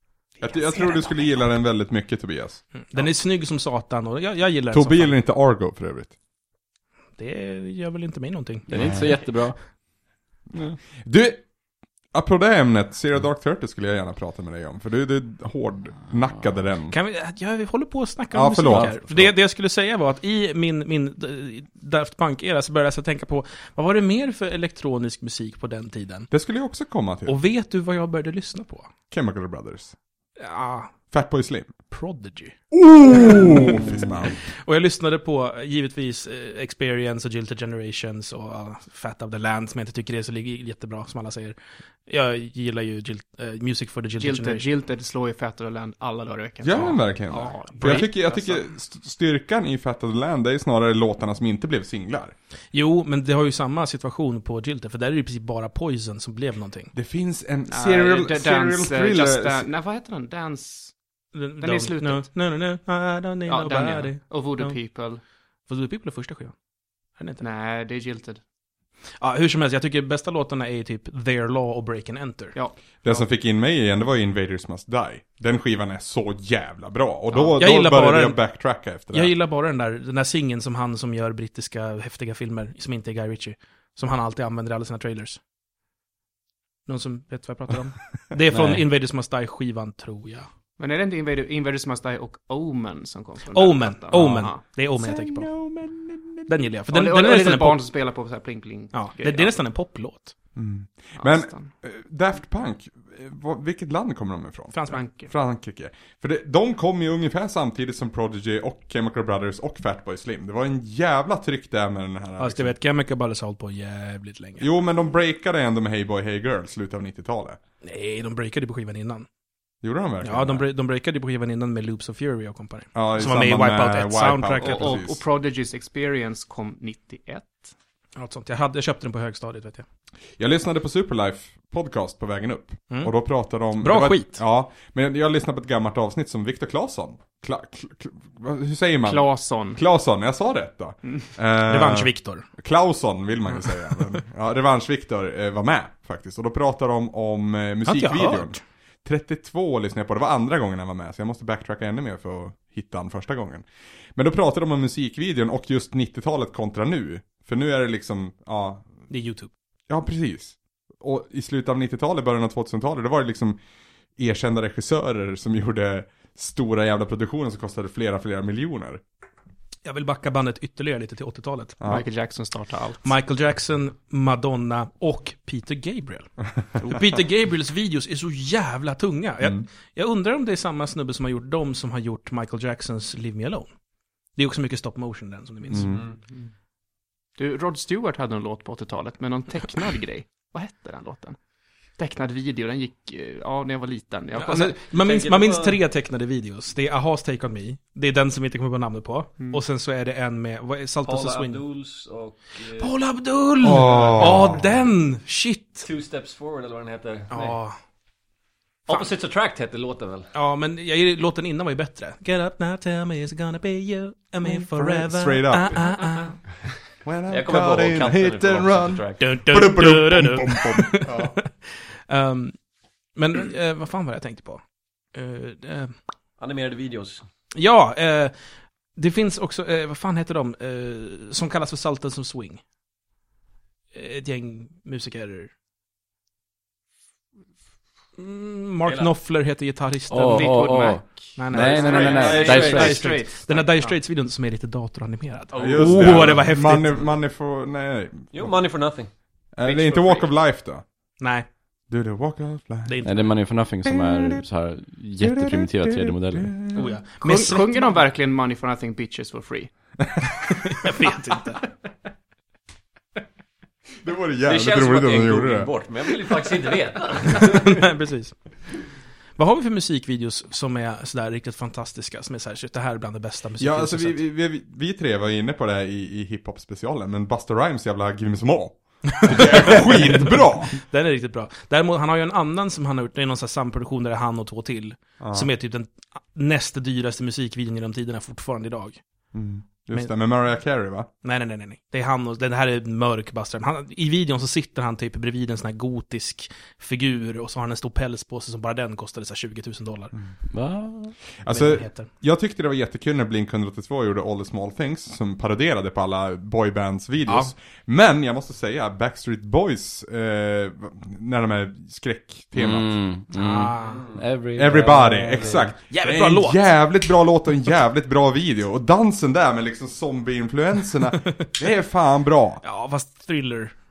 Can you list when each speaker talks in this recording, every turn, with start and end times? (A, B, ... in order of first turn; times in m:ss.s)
0:00.4-0:01.2 A
0:00.4-0:02.6 B
0:02.8-0:05.2 C
0:04.7-0:06.1 B
0:07.2-0:08.9 C
0:08.7-0:09.6 D
0:10.9-0:11.4 B
0:12.1-0:16.9 B
0:16.9-0:26.3 C
0:18.3-0:19.3 B
0:26.3-0:27.4 B
0:27.2-0:28.9 C
0:29.1-0:29.9 B
0:30.4-0:30.9 C
0:31.1-0:31.7 B
0:31.9-0:32.6 C
0:32.7-0:34.4 B
0:34.6-0:41.6 C
0:42.1-0:44.6 C
0:44.2-0:48.6 A
0:46.6-0:52.3 B
0:47.8-0:48.1 C
0:52.7-0:56.9 C
0:56.9-0:59.7 B
0:57.7-1:00.9 A
1:01.3-1:04.8 C
1:01.6-1:02.3 A
1:03.5-1:05.2 A
1:05.7-1:06.5 C
1:07.2-1:07.4 C
1:07.4-1:08.4 A
1:09.2-1:12.6 C
1:12.5-1:13.2 A
1:13.0-1:19.3 B
1:17.6-1:18.4 C
1:19.1-1:25.4 C
1:26.9-1:30.5 C
1:28.5-1:28.8 D
1:30.8-1:34.6 A
1:33.5-1:35.5 C
1:34.1-1:36.5 B
1:36.5-1:37.8 C
1:36.9-1:39.5 A
1:38.9-1:40.3 C
1:40.6-1:52.7 B
1:41.2-1:41.7 A
1:44.7-1:45.0 C
1:44.9-1:45.3 A
1:52.4-1:54.7 C
1:54.6-1:57.6 B
1:57.8-1:59.3 C
1:59.8-2:00.6 B
2:00.2-2:05.0 C
2:02.9-2:05.2 B
2:04.6-2:07.7 A
2:08.2-2:09.8 C
2:10.4-2:38.9 B
2:13.8-2:14.4 C
2:19.0-2:19.8 A
2:21.6-2:22.4 C
2:27.8-2:28.6 C
2:39.1-2:39.5 C
2:39.9-2:43.6 B
2:44.2-2:49.0 B
2:49.8-2:51.8 C
2:51.8-2:52.0 B
2:51.8-2:53.1 A
2:53.0-3:03.7 C
3:04.3-3:06.0 C
3:05.7-3:06.0 B
3:07.4-3:11.4 A
3:12.0-3:14.8 A
3:14.4-3:21.6 C
3:14.9-3:15.8 E
3:21.0-3:22.9 E
3:22.8-3:25.9 C
3:23.6-3:24.6 B
3:25.8-3:27.5 E
3:27.3-3:27.8 C
3:28.9-3:30.3 E
3:30.3-3:36.3 C
3:34.5-3:35.9 B
3:37.0-3:41.4 B
3:37.3-3:39.2 E
3:39.2-3:42.6 C
3:43.2-3:44.6 C
3:45.1-3:45.9 C
3:46.4-3:47.2 E
3:47.5-3:48.3 C
3:49.0-3:52.6 C
3:53.9-3:55.5 C
3:58.2-4:07.0 C
3:58.8-3:59.1 E
4:00.1-4:03.2 D
4:00.2-4:03.9 A
4:01.7-4:03.0 E
4:05.5-4:06.4 E
4:05.6-4:08.6 B
4:08.3-4:09.1 E
4:09.5-4:10.8 B
4:11.2-4:11.5 C
4:11.9-4:13.0 B
4:12.8-4:13.3 C
4:13.0-4:16.7 D
4:13.8-4:14.4 B
4:15.2-4:16.8 B
4:16.7-4:18.0 C
4:16.7-4:19.7 A
4:20.7-4:21.6 C
4:24.0-4:25.7 B
4:24.4-4:27.8 E
4:27.2-4:28.3 C
4:29.4-4:34.2 C
4:33.6-4:40.8 B
4:39.2-4:49.0 C
4:45.2-4:45.5 B
4:49.3-4:51.1 B
4:51.2-5:00.1 C
5:00.5-5:01.2 D
5:01.4-5:13.0 B
5:01.5-5:02.1 C
5:12.5-5:15.8 D
5:13.3-5:14.0 C
5:14.5-5:22.6 B
5:15.9-5:16.7 C
5:22.6-5:23.7 C